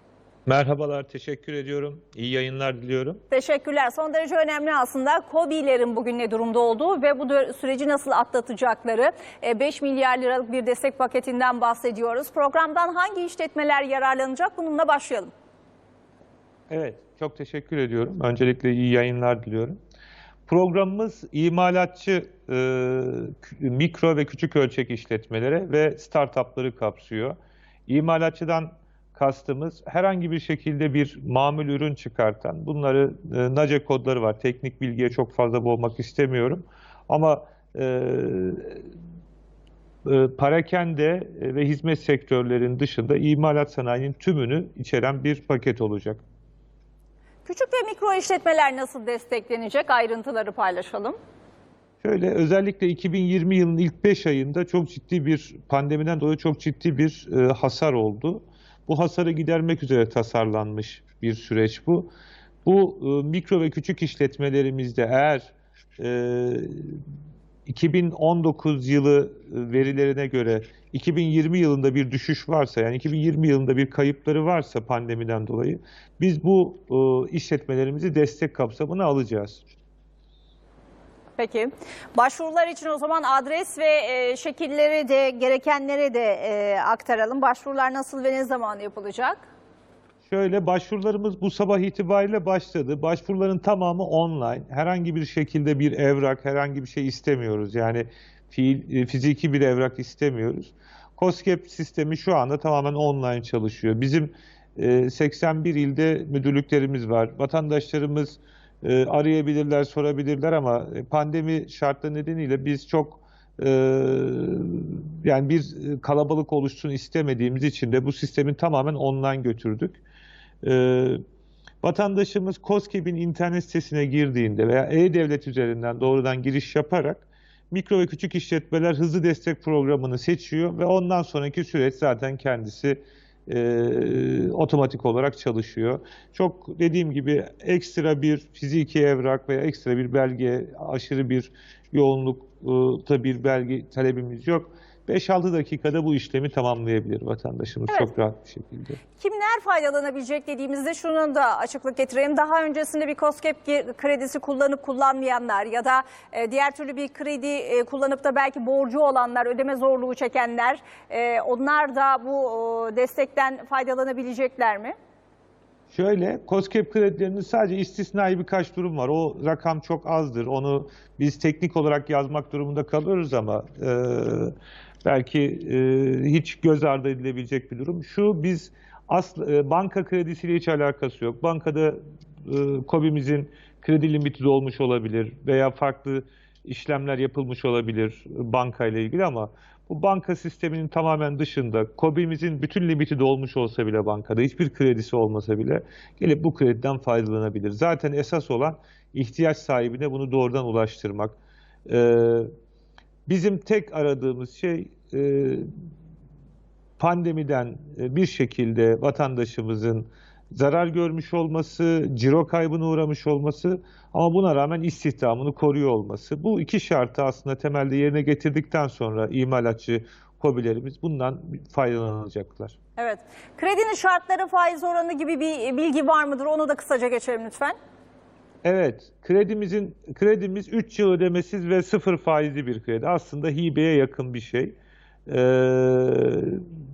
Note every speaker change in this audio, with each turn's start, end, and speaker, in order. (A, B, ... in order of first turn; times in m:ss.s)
0:00.4-0:03.2 A
0:03.3-0:15.3 B
0:16.7-0:19.8 A
0:20.5-0:38.9 A
0:40.0-0:46.2 A
0:47.4-0:51.2 B
0:52.0-1:02.1 A
1:02.6-1:07.0 A
1:07.6-1:19.6 A
1:21.4-1:29.5 B
1:30.3-2:00.0 A
2:00.6-2:01.2 A
2:01.8-2:29.0 A
2:29.2-2:44.9 B
2:45.9-3:22.5 A
3:23.3-3:25.7 A
3:27.0-3:42.8 A
3:43.0-3:47.7 B
3:48.6-3:54.8 A
3:55.3-3:56.7 A